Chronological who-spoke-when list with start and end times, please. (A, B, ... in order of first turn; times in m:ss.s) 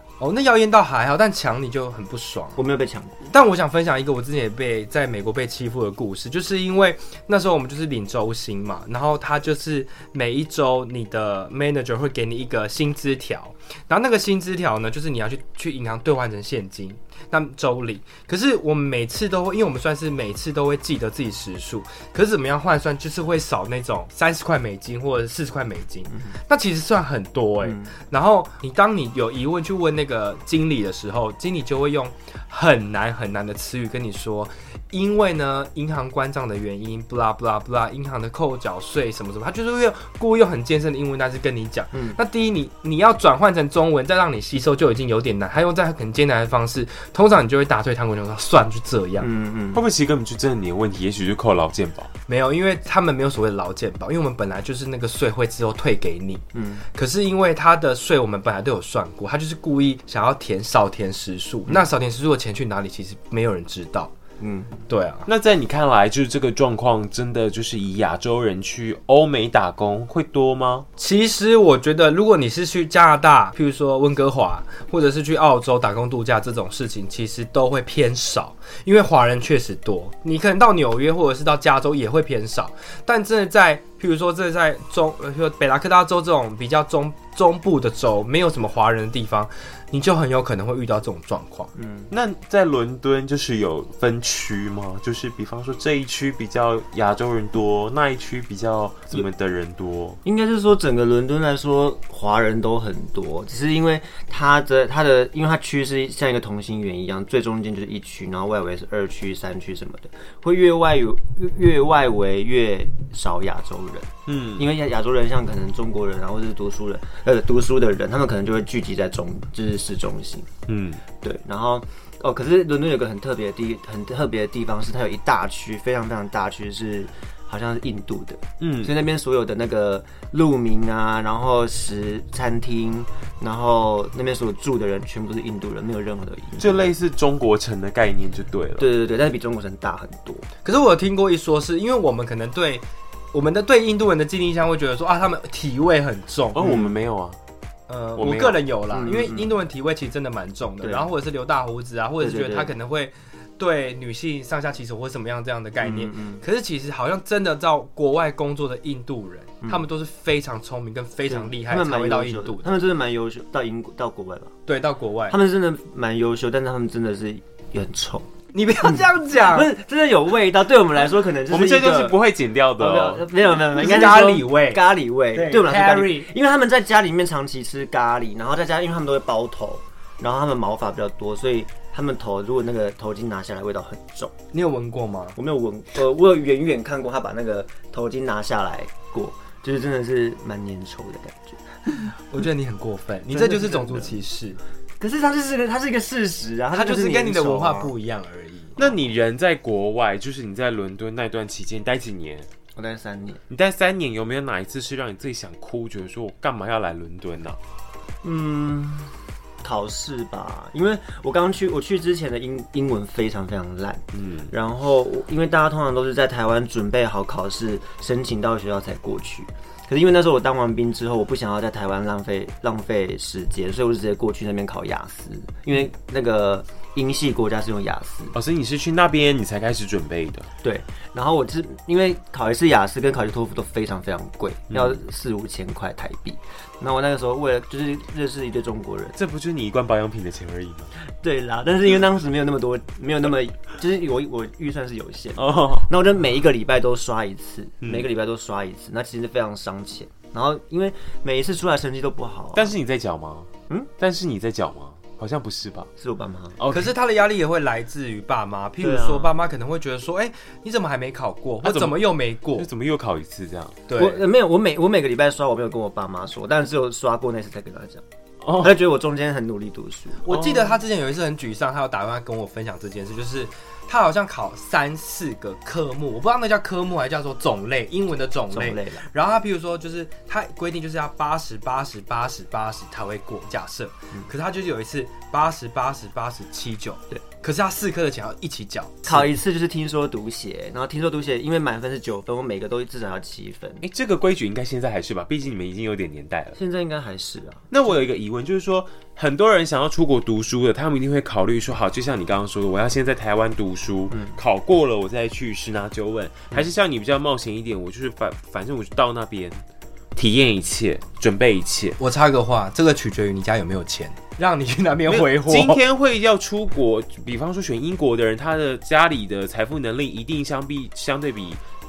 0:00.2-0:02.6 A
0:02.6-0:03.2 B
0:03.2-0:49.3 A
0:27.6-0:27.9 B
0:41.9-0:42.2 B
0:49.2-0:49.8 B
0:49.7-0:52.1 C
0:52.3-0:56.4 A
0:56.5-0:56.8 B
0:56.9-1:04.1 A
1:04.4-1:04.8 B
1:04.9-1:05.2 A
1:05.2-1:10.8 C
1:11.0-1:31.7 A
1:31.7-1:32.1 B
1:32.1-1:40.2 C
1:40.2-2:00.5 B
1:54.3-1:54.7 C
2:00.7-2:01.0 C
2:01.2-2:16.9 B
2:08.6-2:08.9 C
2:16.6-2:18.9 C
2:18.8-2:20.5 B
2:20.6-2:26.6 A
2:26.5-2:27.4 C
2:26.6-2:26.9 B
2:27.9-2:42.8 A
2:28.2-2:28.6 C
2:28.9-2:29.6 B
2:30.8-2:31.1 B
2:32.2-2:32.7 B
2:35.8-2:36.4 B
2:41.3-2:44.5 B
2:44.7-2:45.4 A
2:45.3-2:48.3 B
2:48.5-2:49.7 A
2:48.8-2:52.2 B
2:51.5-2:53.3 C
2:52.8-3:04.3 B
2:53.7-2:56.3 A
3:04.5-3:05.4 A
3:05.4-3:12.0 B
3:12.0-3:14.6 A
3:13.3-3:14.2 B
3:15.0-3:17.9 B
3:16.7-3:18.8 A
3:18.8-3:22.5 C
3:22.8-3:23.4 B
3:23.5-3:27.6 C
3:28.2-3:48.3 B
3:34.1-3:34.5 C
3:48.3-3:50.5 C
3:50.6-3:59.2 B
3:54.7-3:55.0 C
3:59.2-4:00.9 C
4:01.2-4:12.8 B
4:05.4-4:05.9 C
4:07.8-4:08.1 C
4:12.5-4:15.9 C
4:16.0-4:16.6 B
4:16.6-4:16.9 C
4:16.7-4:22.7 A
4:18.8-4:19.3 B
4:21.6-4:23.8 C
4:23.9-4:24.2 A
4:24.0-4:28.0 B
4:28.4-4:28.8 C
4:28.6-4:30.2 B
4:30.2-4:49.3 A
4:30.3-4:30.8 C
4:38.5-4:39.0 B
4:49.0-4:53.8 B
4:53.8-4:56.6 C
4:56.5-4:57.7 B
4:57.7-5:09.6 C
5:04.1-5:04.4 B
5:10.1-5:12.0 C
5:12.0-5:15.8 A
5:15.1-5:21.6 C